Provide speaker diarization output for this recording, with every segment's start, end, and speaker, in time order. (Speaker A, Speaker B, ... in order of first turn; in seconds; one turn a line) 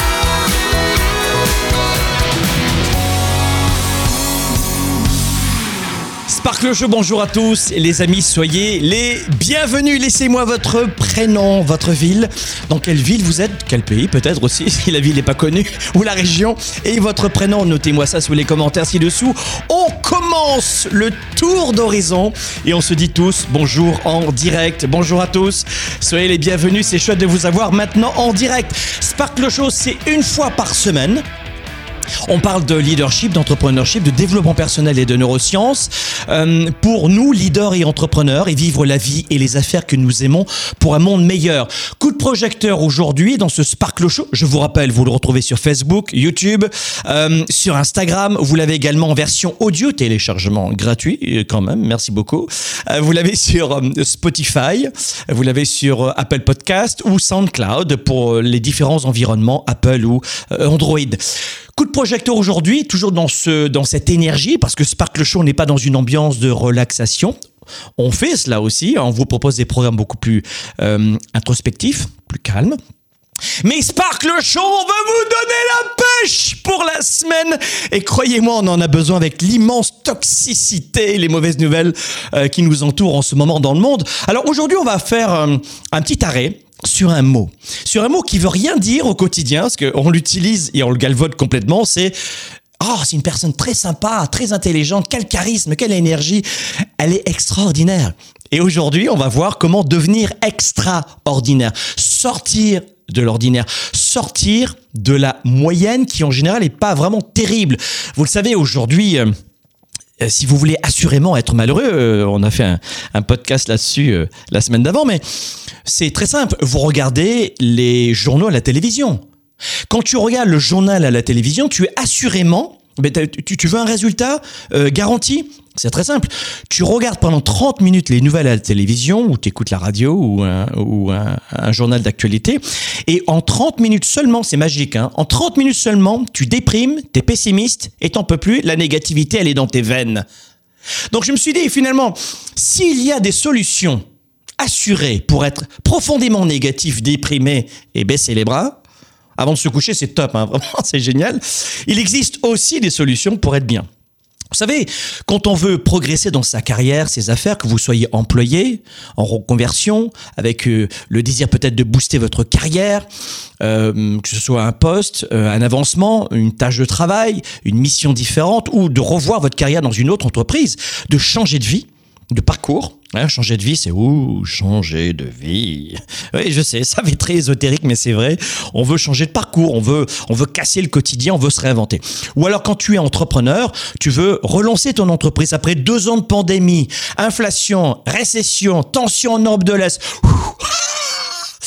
Speaker A: 6.3-31.2
Speaker A: 32.2-61.2
Speaker A: 61.8-67.4
Speaker A: 68.0-72.8
Speaker A: 73.6-92.2
Speaker A: 92.8-109.3
Speaker A: 110.2-115.2
Speaker A: 115.8-119.2
Speaker A: 119.9-140.2
Speaker A: 141.1-144.0
Speaker A: 144.6-148.8
Speaker A: 149.4-153.9
Speaker A: 154.5-163.1
Speaker A: 163.6-191.2